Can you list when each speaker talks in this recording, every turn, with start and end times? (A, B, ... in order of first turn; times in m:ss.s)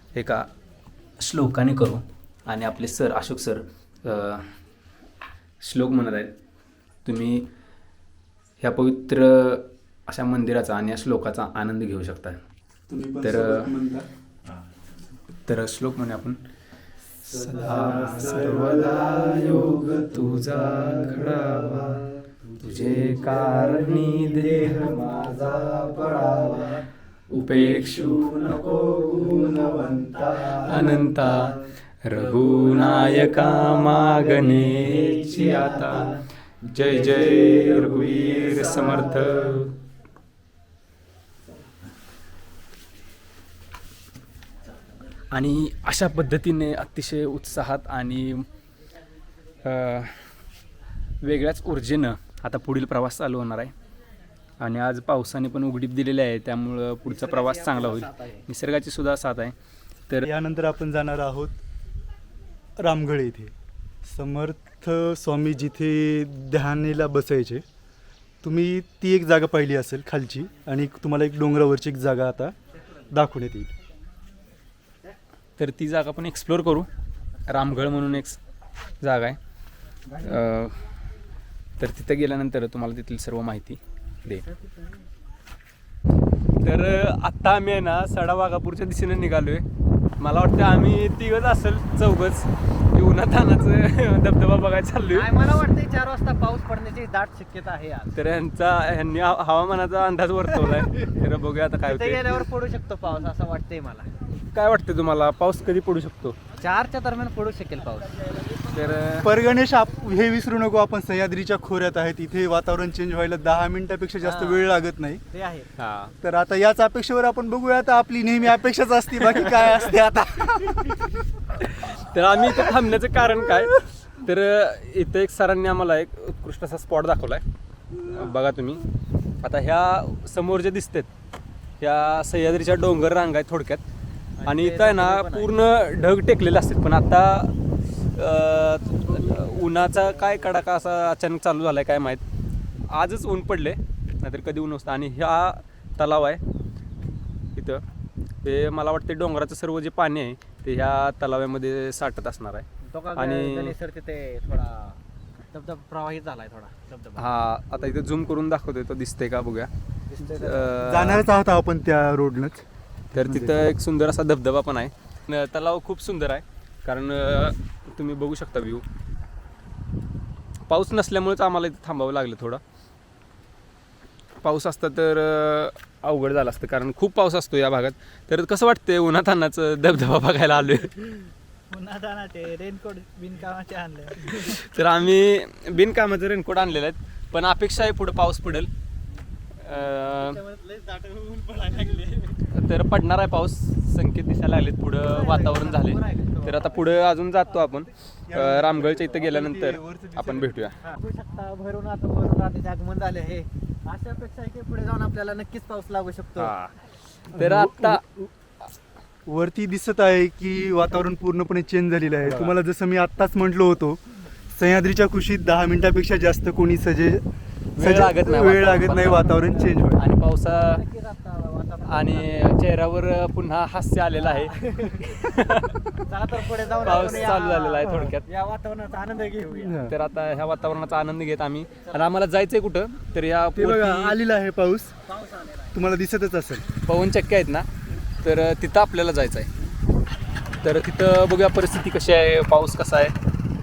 0:00.1-0:00.5 A
0:01.2-0:04.5 A
0:05.6-0:06.3 A
0:07.0-0:07.5 A
0:08.6-0:12.4 A
0:12.9-0:14.1 B
0:13.2-0:13.7 A
0:15.4-0:16.4 A
0:17.2-0:39.7 A
0:17.3-0:18.8 B
0:45.3-0:48.4 A
0:49.6-0:50.3 A
0:51.2-0:53.7 A
0:54.6-0:59.5 A
0:57.0-0:58.4 C
1:00.2-1:01.6 B
1:02.8-1:03.5 B
1:04.0-1:07.6 B
1:08.4-1:12.5 B
1:13.1-1:13.7 B
1:15.6-1:16.9 A
1:17.5-1:18.4 A
1:19.0-1:19.4 A
1:20.2-1:20.8 A
1:21.8-1:24.4 A
1:24.5-1:25.0 C
1:26.6-1:29.6 A
1:30.2-1:35.3 A
1:35.1-1:38.2 C
1:38.1-1:42.4 A
1:41.8-1:44.1 C
1:44.5-1:46.4 A
1:46.6-1:48.4 C
1:48.6-1:49.3 A
1:49.2-1:55.2 B
1:54.2-1:54.7 C
1:55.3-1:55.7 C
1:55.8-1:56.1 A
1:56.2-2:01.0 B
1:59.4-1:59.8 A
2:01.6-2:07.4 A
2:08.0-2:08.8 A
2:09.4-2:11.1 A
2:11.8-2:13.8 A
2:14.4-2:15.5 C
2:14.4-2:22.2 A
2:22.9-2:26.4 A
2:27.5-2:27.8 A
2:28.4-2:33.7 A
2:32.8-2:35.0 C
2:35.5-2:37.2 C
2:37.2-2:41.3 A
2:40.1-2:40.8 C
2:40.8-2:42.6 B
2:43.1-2:48.8 A
2:43.1-2:43.6 B
2:50.7-2:52.6 A
2:54.4-3:01.1 A
3:01.7-3:04.5 C
3:04.2-3:08.7 A
3:09.6-3:10.4 A
3:10.1-3:12.5 C
3:12.5-3:20.8 A
3:15.0-3:16.8 C
3:18.3-3:20.7 B
3:20.8-3:26.5 C
3:26.4-3:28.0 A
3:27.3-3:28.1 B
3:29.2-3:34.0 B
3:32.2-3:32.5 A
3:34.5-3:37.2 B
3:37.8-3:39.4 A
3:37.8-3:40.0 B
3:39.3-3:39.8 C
3:39.9-3:40.8 A
3:40.5-3:42.6 C
3:41.8-3:45.9 A
3:44.3-3:45.3 C
3:46.0-3:49.8 C
3:46.8-3:48.3 A
3:49.6-3:49.9 B
3:49.8-3:54.2 A
3:53.5-3:55.0 B
3:55.1-3:55.7 C
3:55.7-3:56.6 B
3:56.8-3:57.7 A
3:58.2-3:59.5 A
4:00.6-4:03.1 A